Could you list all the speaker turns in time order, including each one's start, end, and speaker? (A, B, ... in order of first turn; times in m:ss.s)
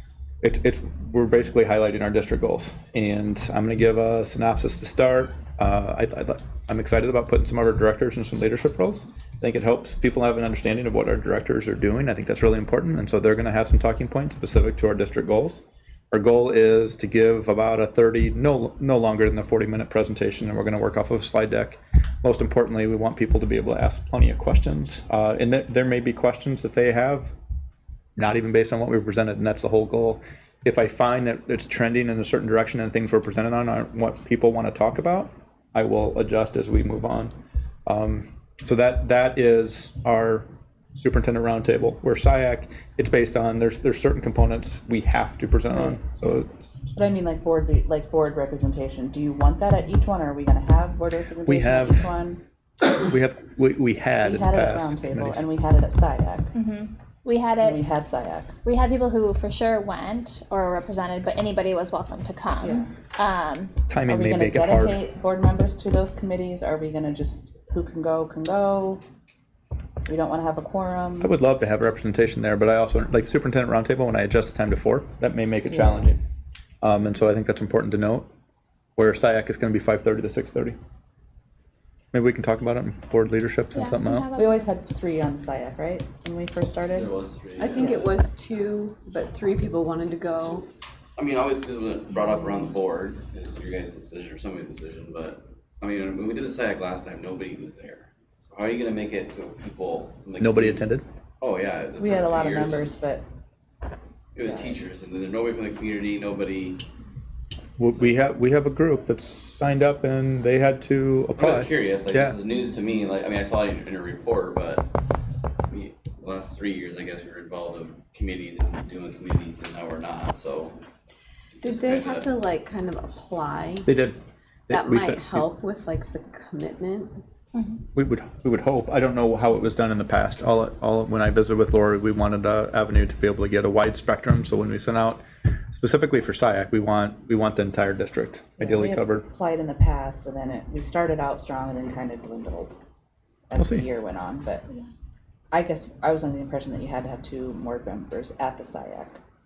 0:00.4-0:27.3 A
0:28.2-0:37.3 A
0:37.9-0:46.5 A
0:46.9-0:52.4 B
0:51.4-0:52.1 A
0:52.8-0:55.5 A
0:54.2-0:56.5 B
0:56.5-0:57.8 C
0:57.6-0:58.5 B
0:58.6-1:03.7 C
1:02.6-1:02.9 B
1:03.9-1:05.0 A
1:04.0-1:09.0 B
1:10.1-1:11.4 B
1:11.2-1:16.2 A
1:15.7-1:16.1 B
1:16.8-1:18.3 A
1:19.0-1:20.8 A
1:22.1-1:24.3 A
1:23.7-1:24.7 C
1:24.3-1:27.2 B
1:26.9-1:28.2 D
1:27.6-1:30.6 E
1:27.7-1:28.2 B
1:31.2-1:40.9 D
1:40.4-1:41.0 A
1:41.4-1:43.0 D
1:42.0-1:43.2 B
1:44.4-1:46.8 D
1:44.5-1:44.8 B
1:47.8-1:52.4 A
1:51.4-1:54.9 D
1:55.7-2:00.8 D
2:01.6-2:02.5 D
2:01.6-2:03.9 E
2:03.8-2:05.6 A
2:04.7-2:07.2 E
2:07.5-2:07.8 C
2:08.0-2:19.3 A
2:18.6-2:22.8 B
2:23.5-2:24.6 B
2:23.6-2:23.9 A
2:25.5-2:29.2 B